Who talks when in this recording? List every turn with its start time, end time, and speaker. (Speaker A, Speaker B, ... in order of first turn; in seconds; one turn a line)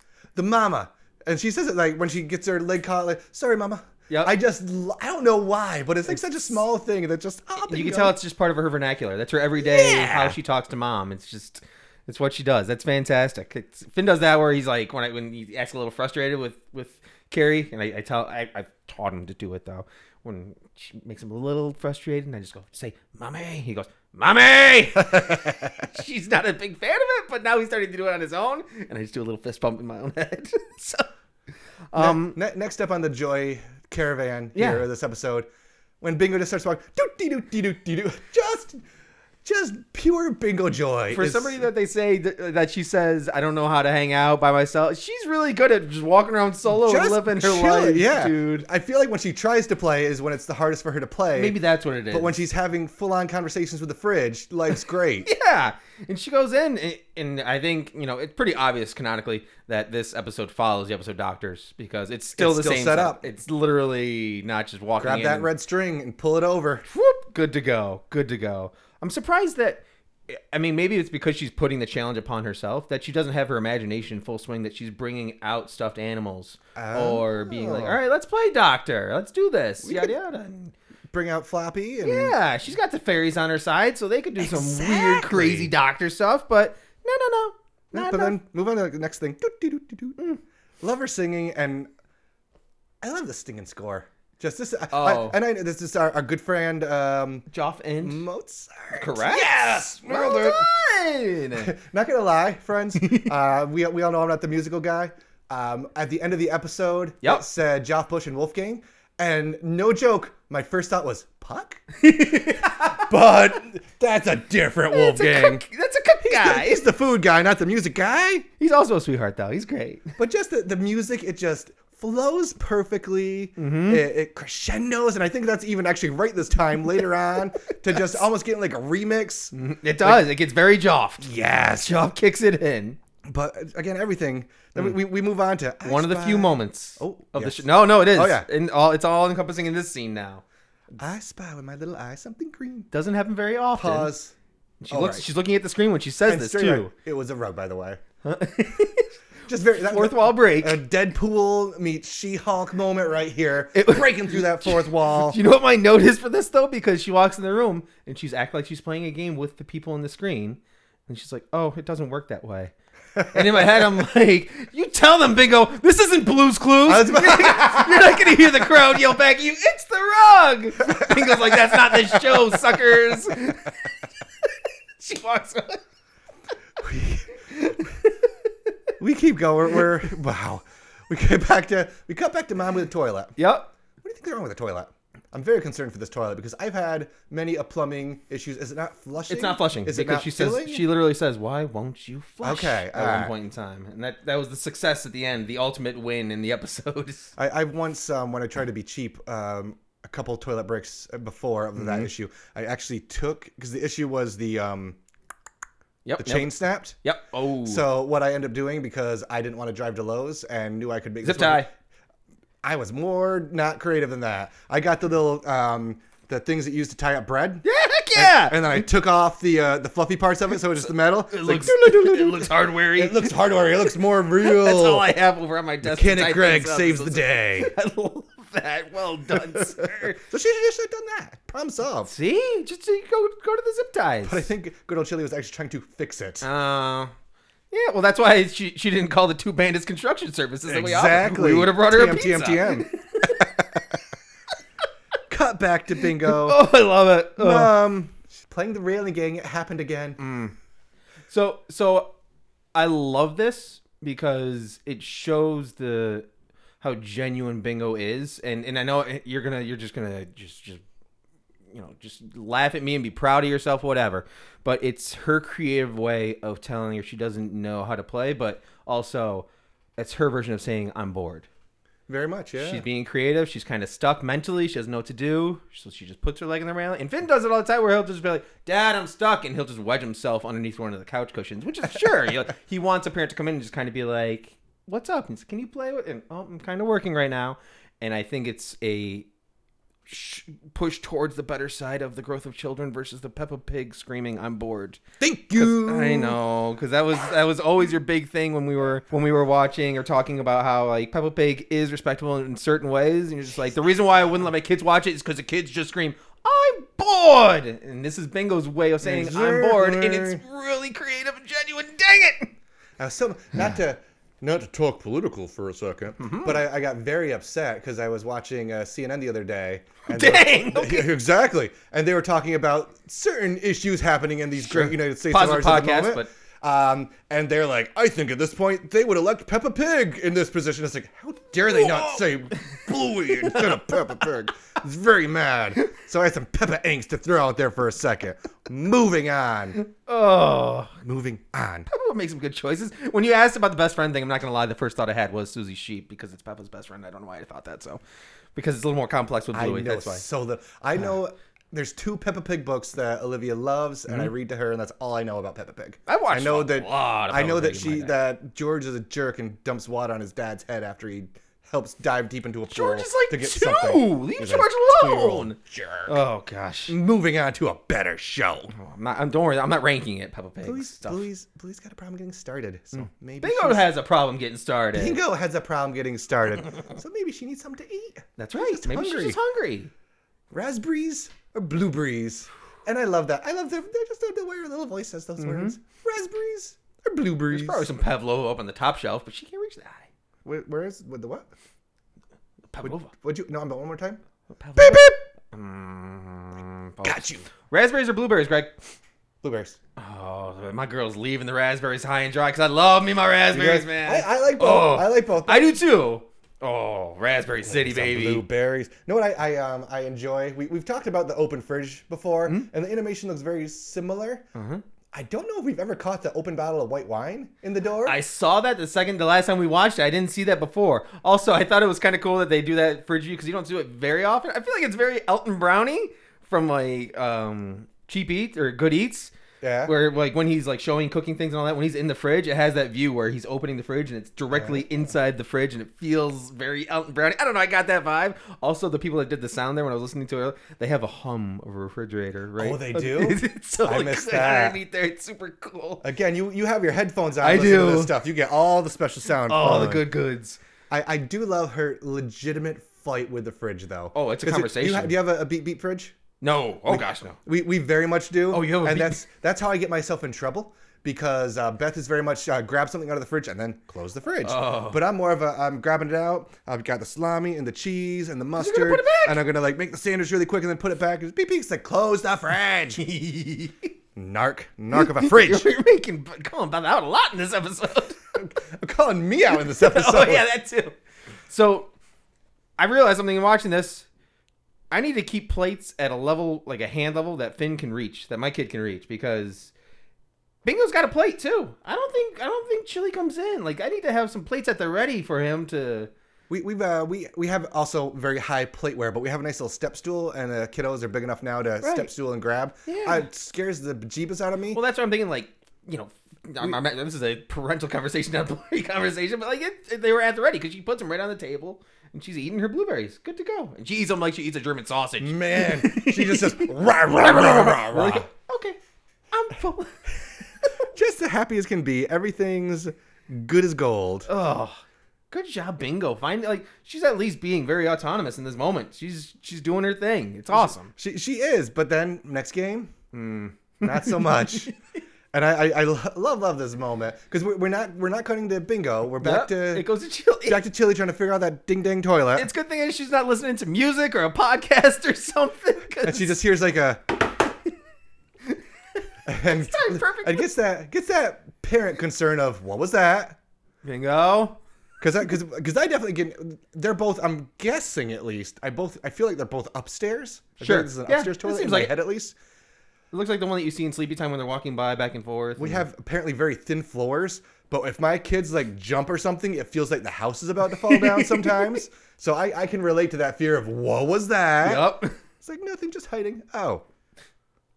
Speaker A: 0.3-8.2
Speaker B: 7.6-31.1
Speaker A: 9.6-10.3
Speaker A: 25.1-25.7
Speaker B: 31.9-32.4
Speaker A: 31.9-35.5
Speaker B: 34.5-34.8
Speaker A: 36.0-38.8
Speaker A: 39.4-41.6
Speaker B: 41.1-48.6
Speaker A: 46.7-51.6
Speaker B: 51.3-52.4
Speaker A: 52.1-55.3
Speaker B: 55.2-65.5
Speaker A: 62.4-63.2
Speaker A: 65.0-66.8
Speaker B: 66.9-80.7
Speaker A: 76.8-78.0
Speaker A: 79.8-80.1
Speaker A: 81.1-82.3
Speaker B: 82.0-88.4
Speaker A: 84.4-85.7
Speaker A: 87.9-90.2
Speaker A: 90.8-91.9
Speaker A: 93.0-97.5
Speaker B: 94.9-95.4
Speaker B: 97.5-98.2
Speaker A: 98.0-100.7
Speaker B: 98.9-101.7
Speaker A: 101.5-115.6
Speaker B: 103.0-103.3
Speaker B: 112.0-113.1
Speaker B: 114.9-116.9
Speaker A: 116.2-118.5
Speaker B: 118.6-120.1
Speaker A: 120.2-130.2
Speaker B: 123.6-124.0
Speaker B: 129.5-133.0
Speaker A: 131.2-132.1
Speaker A: 133.2-138.5
Speaker B: 135.8-140.4
Speaker A: 140.9-142.9
Speaker B: 142.9-144.1
Speaker A: 143.7-144.3
Speaker B: 144.8-146.9
Speaker A: 144.9-145.2
Speaker A: 146.2-148.0
Speaker B: 148.2-149.1
Speaker A: 149.5-155.4
Speaker B: 149.8-150.8
Speaker B: 153.7-162.7
Speaker A: 163.2-163.8
Speaker B: 163.3-173.9
Speaker A: 166.8-168.7
Speaker A: 170.9-173.2
Speaker B: 175.0-175.8
Speaker A: 176.8-177.3
Speaker B: 177.5-178.1
Speaker A: 179.0-183.3
Speaker B: 183.4-183.7
Speaker A: 184.0-190.8
Speaker B: 189.3-197.3
Speaker A: 192.4-193.3
Speaker A: 197.4-205.0
Speaker B: 201.8-202.1
Speaker B: 206.0-207.8
Speaker A: 206.2-206.9
Speaker A: 207.6-211.7
Speaker B: 211.2-211.7
Speaker A: 212.6-225.1
Speaker B: 217.6-218.8
Speaker B: 221.3-223.3
Speaker B: 224.4-230.2
Speaker A: 225.8-227.7
Speaker A: 229.4-232.1
Speaker B: 232.1-234.5
Speaker A: 234.2-236.4
Speaker B: 236.4-237.1
Speaker B: 237.7-243.4
Speaker A: 240.7-244.0
Speaker A: 245.3-246.6
Speaker B: 246.2-247.7
Speaker A: 247.4-250.2
Speaker B: 250.2-250.5
Speaker B: 251.3-252.1
Speaker B: 252.7-256.3
Speaker B: 256.8-260.8
Speaker B: 261.7-271.5
Speaker A: 272.1-272.8
Speaker B: 272.6-289.3
Speaker B: 290.1-295.0
Speaker A: 295.2-296.4
Speaker B: 295.5-312.5
Speaker A: 309.0-310.4
Speaker A: 313.0-339.8
Speaker B: 316.2-316.6
Speaker B: 320.1-321.1
Speaker B: 324.6-326.3
Speaker B: 331.7-334.1
Speaker B: 339.8-340.9
Speaker A: 341.0-341.9
Speaker B: 341.9-348.0
Speaker B: 348.5-350.2
Speaker A: 349.5-366.2
Speaker B: 356.1-358.1
Speaker B: 362.7-366.9
Speaker A: 366.9-368.7
Speaker B: 368.7-371.2
Speaker A: 370.6-373.9
Speaker B: 372.9-375.2
Speaker A: 374.9-379.4
Speaker B: 378.4-379.9
Speaker A: 380.5-387.9
Speaker B: 385.4-385.8
Speaker B: 387.5-390.1
Speaker A: 390.4-391.5
Speaker B: 392.7-393.1
Speaker A: 392.8-394.2
Speaker B: 394.5-398.7
Speaker A: 394.8-395.1
Speaker A: 397.0-397.5
Speaker A: 399.4-399.8
Speaker B: 400.0-408.4
Speaker A: 403.5-405.8
Speaker A: 407.6-414.4
Speaker B: 414.5-414.8
Speaker A: 415.1-418.2
Speaker B: 418.0-429.3
Speaker A: 429.6-429.9
Speaker B: 429.8-446.0
Speaker A: 434.5-435.1
Speaker A: 442.6-444.8
Speaker A: 446.0-450.1
Speaker B: 447.4-448.1
Speaker B: 449.5-450.6
Speaker A: 450.9-456.2
Speaker B: 454.1-455.1
Speaker B: 456.4-457.4
Speaker A: 456.9-473.0
Speaker B: 458.5-459.2
Speaker B: 464.4-465.0
Speaker B: 468.6-469.4
Speaker B: 472.9-473.9
Speaker A: 474.1-475.7
Speaker B: 474.9-478.3
Speaker A: 478.3-480.4
Speaker B: 479.5-480.9
Speaker B: 481.5-481.9
Speaker B: 482.8-484.1
Speaker B: 484.9-489.7
Speaker B: 490.6-496.1
Speaker A: 496.5-504.8
Speaker B: 501.8-502.1
Speaker B: 502.9-503.2
Speaker B: 504.7-518.8
Speaker A: 515.2-518.3
Speaker B: 519.3-520.0
Speaker A: 520.9-524.3
Speaker B: 524.3-524.8
Speaker B: 525.3-530.9
Speaker A: 530.5-532.9
Speaker B: 533.1-534.7
Speaker A: 533.8-534.7
Speaker A: 535.3-539.9
Speaker B: 539.2-540.6
Speaker A: 540.5-542.5
Speaker B: 542.4-546.3
Speaker A: 546.0-547.1
Speaker A: 549.2-553.4
Speaker B: 549.4-550.5
Speaker B: 553.8-554.6
Speaker A: 555.0-562.3
Speaker B: 560.6-561.9
Speaker B: 563.1-565.8
Speaker A: 565.6-576.8
Speaker B: 570.8-571.8
Speaker B: 574.6-575.2